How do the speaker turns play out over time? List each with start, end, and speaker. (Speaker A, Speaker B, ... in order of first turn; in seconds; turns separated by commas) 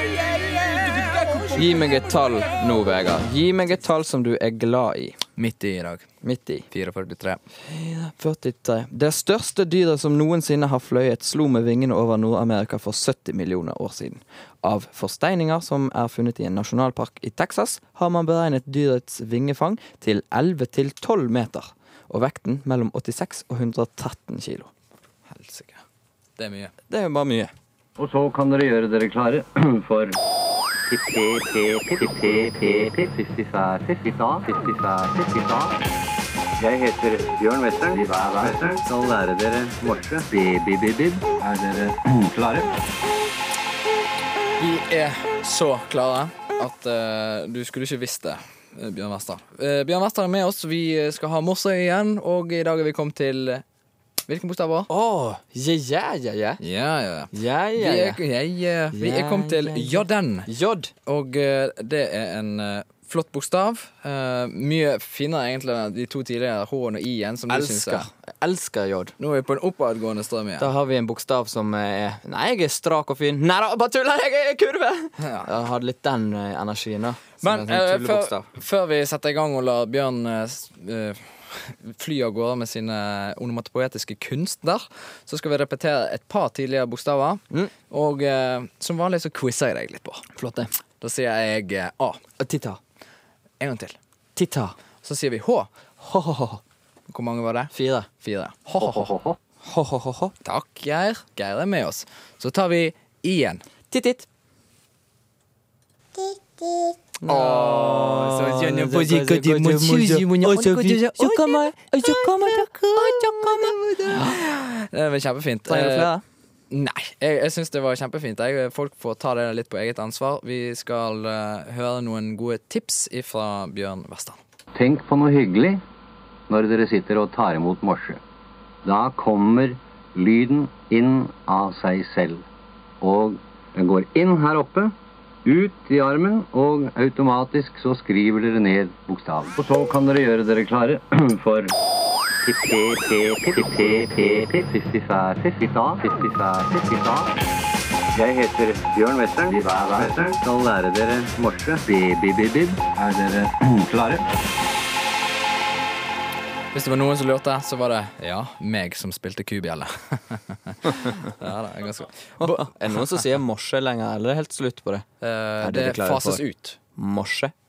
Speaker A: 1.5-5.2, Speaker B: 5.4-6.1, Speaker A: 6.2-6.7, Speaker B: 6.7-7.4, Speaker A: 7.6-24.7, Speaker B: 25.3-25.8, Speaker B: 26.4-26.7, Speaker A: 26.9-27.5, Speaker C: 28.0-30.2, Speaker C: 30.9-35.8, Speaker C: 36.6-42.7, Speaker B: 44.6-53.6, Speaker B: 54.3-54.9, Speaker A: 54.9-56.6, Speaker B: 56.6-60.5, Speaker A: 57.3-58.2, Speaker A: 58.9-60.9, Speaker B: 61.0-68.1, Speaker A: 67.5-69.1, Speaker B: 69.2-70.7, Speaker A: 70.6-78.5, Speaker B: 75.2-75.5, Speaker B: 77.4-92.2, Speaker A: 92.4-92.8, Speaker B: 93.6-94.0, Speaker A: 94.3-94.8, Speaker B: 95.0-95.7, Speaker A: 96.0-96.6, Speaker B: 97.1-99.1, Speaker A: 97.7-98.1, Speaker C: 98.8-99.4, Speaker A: 99.6-100.3, Speaker B: 100.4-103.6, Speaker A: 103.9-104.3, Speaker A: 107.2-114.4, Speaker B: 107.2-111.4, Speaker B: 114.1-116.1, Speaker A: 115.7-116.2, Speaker B: 116.7-124.4, Speaker C: 124.7-125.8, Speaker C: 126.5-128.2, Speaker C: 128.8-132.4, Speaker C: 133.0-141.7, Speaker C: 142.4-147.4, Speaker C: 148.1-154.3, Speaker B: 156.7-163.1, Speaker A: 162.4-165.1, Speaker B: 165.2-166.8, Speaker A: 165.6-166.4, Speaker A: 166.9-167.5